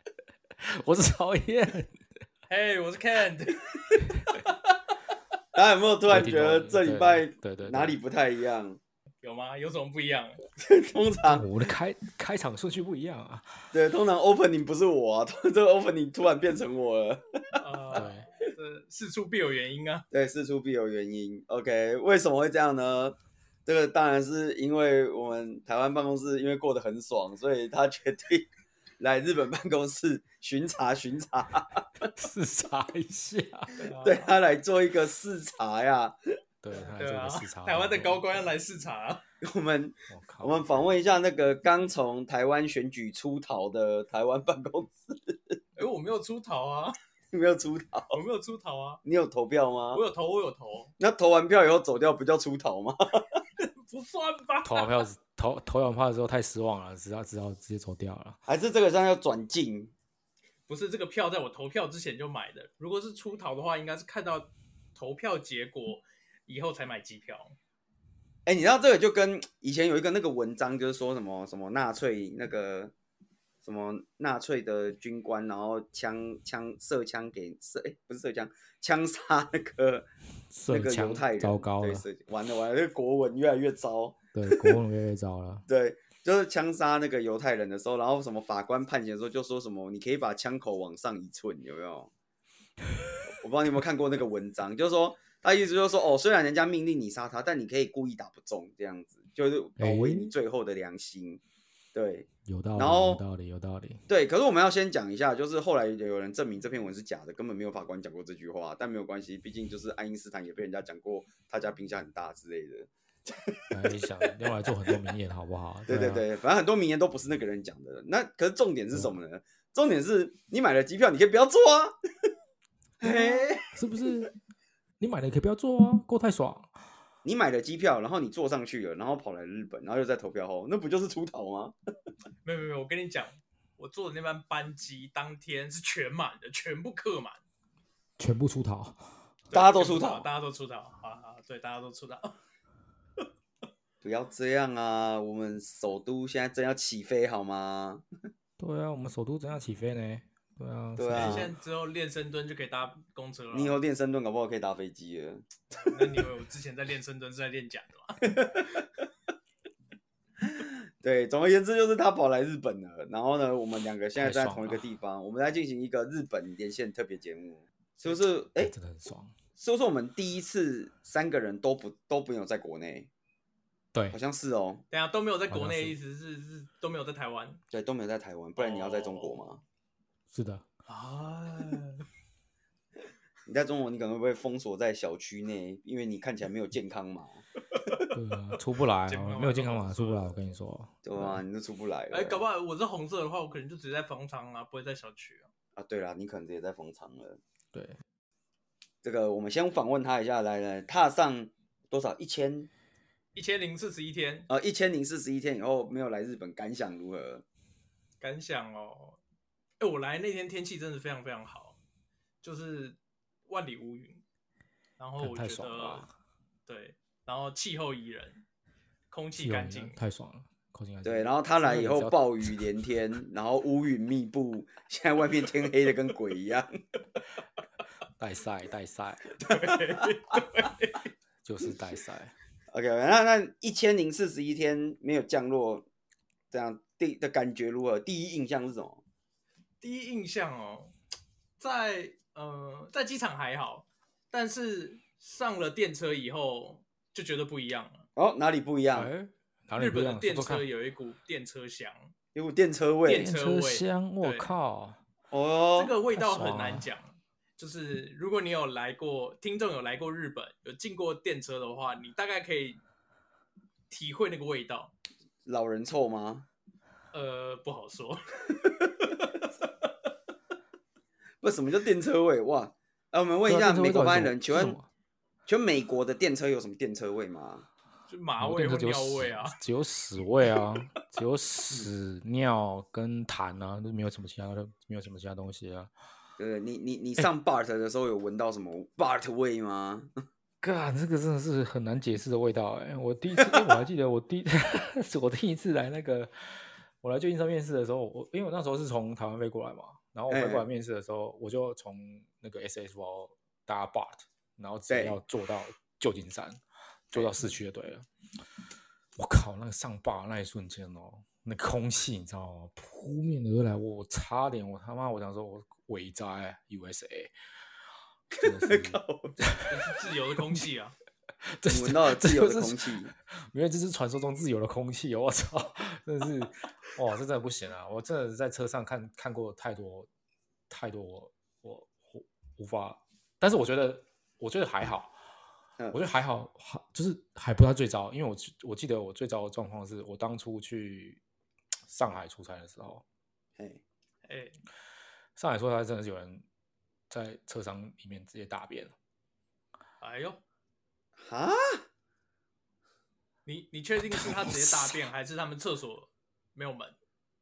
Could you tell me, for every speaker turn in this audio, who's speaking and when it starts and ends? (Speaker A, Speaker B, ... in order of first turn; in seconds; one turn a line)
Speaker A: 0.6-1.9
Speaker B: 2.5-4.5
Speaker C: 5.5-8.8
Speaker A: 6.1-8.0
Speaker B: 9.2-10.4
Speaker C: 10.6-11.5
Speaker A: 11.3-13.7
Speaker C: 13.7-18.0
Speaker B: 17.6-20.0
Speaker A: 17.9-18.3
Speaker C: 20.1-28.5
Speaker C: 29.0-32.1
Speaker A: 32.1-33.8
Speaker B: 33.8-34.3
Speaker C: 34.0-36.1
Speaker A: 36.6-38.5
Speaker B: 36.7-39.2
Speaker C: 39.4-45.6
Speaker A: 40.1-40.6
Speaker B: 45.8-47.0
Speaker C: 47.3-48.2
Speaker B: 48.1-49.0
Speaker C: 49.0-50.0
Speaker B: 49.9-50.9
Speaker C: 51.0-53.4
Speaker B: 53.6-55.0
Speaker A: 54.6-58.4
Speaker C: 58.5-59.9
Speaker B: 60.7-67.5
Speaker C: 68.5-72.9
Speaker C: 73.6-80.1
Speaker A: 80.5-82.0
Speaker C: 80.7-84.7
Speaker A: 84.3-85.6
Speaker C: 85.7-92.1
Speaker C: 93.4-101.4
Speaker A: 99.8-100.3
Speaker C: 101.9-103.2
Speaker A: 102.4-104.0
Speaker C: 104.1-113.9
Speaker A: 113.7-116.2
Speaker C: 115.9-121.9
Speaker C: 123.0-123.7
Speaker A: 123.2-124.3
Speaker A: 125.0-126.7
Speaker C: 127.2-131.7
Speaker B: 132.4-137.4
Speaker A: 138.2-139.2
Speaker B: 139.5-142.4
Speaker C: 139.5-140.2
Speaker C: 144.0-148.0
Speaker A: 148.6-151.5
Speaker C: 151.0-151.5
Speaker B: 151.2-153.8
Speaker C: 153.5-155.4
Speaker B: 155.8-158.4
Speaker C: 158.2-158.8
Speaker C: 160.4-168.7
Speaker A: 164.2-164.8
Speaker A: 168.6-169.3
Speaker C: 169.6-173.1
Speaker C: 174.1-174.8
Speaker B: 174.9-177.6
Speaker A: 175.5-175.9
Speaker C: 177.7-179.6
Speaker B: 178.6-179.6
Speaker A: 180.3-180.7
Speaker B: 180.9-182.1
Speaker C: 183.4-187.4
Speaker A: 188.1-191.4
Speaker B: 189.1-190.4
Speaker C: 191.0-192.4
Speaker B: 192.1-195.5
Speaker C: 195.8-197.4
Speaker A: 197.7-198.0
Speaker C: 199.0-202.7
Speaker B: 203.3-204.5
Speaker C: 204.5-207.4
Speaker B: 208.2-209.2
Speaker B: 209.8-211.8
Speaker B: 212.4-214.2
Speaker B: 215.0-216.1
Speaker A: 215.2-216.1
Speaker B: 216.7-218.4
Speaker B: 219.1-220.0
Speaker A: 219.3-222.6
Speaker C: 221.0-226.7
Speaker A: 228.2-229.3
Speaker C: 229.4-229.7
Speaker B: 229.4-231.0
Speaker A: 231.4-232.3
Speaker C: 232.7-235.9
Speaker C: 236.5-239.0
Speaker B: 239.8-240.9
Speaker B: 241.6-248.1
Speaker C: 248.2-249.1
Speaker A: 248.9-250.7
Speaker B: 249.8-252.1
Speaker C: 252.3-253.3
Speaker B: 253.1-254.5
Speaker A: 253.1-255.0
Speaker C: 255.3-255.9
Speaker B: 255.8-262.8
Speaker A: 256.1-256.9
Speaker B: 263.9-264.9
Speaker C: 265.4-266.4
Speaker B: 267.1-268.6
Speaker C: 271.4-274.8
Speaker A: 273.5-274.9
Speaker C: 275.4-277.6
Speaker B: 278.1-279.6
Speaker A: 278.4-285.9
Speaker C: 286.4-290.1
Speaker A: 290.6-306.6
Speaker C: 293.4-293.6
Speaker C: 300.3-300.6
Speaker C: 304.9-305.2
Speaker A: 307.1-308.1
Speaker C: 307.1-307.5
Speaker A: 309.1-317.3
Speaker C: 318.3-319.6
Speaker A: 318.4-319.8
Speaker B: 319.7-320.9
Speaker A: 320.4-320.6
Speaker A: 321.5-330.1
Speaker C: 321.7-323.1
Speaker A: 330.7-335.1
Speaker A: 335.9-341.2
Speaker A: 341.9-343.0
Speaker B: 344.2-344.6
Speaker A: 345.4-346.4
Speaker A: 347.1-348.9
Speaker B: 350.0-350.4
Speaker C: 351.2-351.8
Speaker B: 353.4-356.9
Speaker A: 354.0-355.1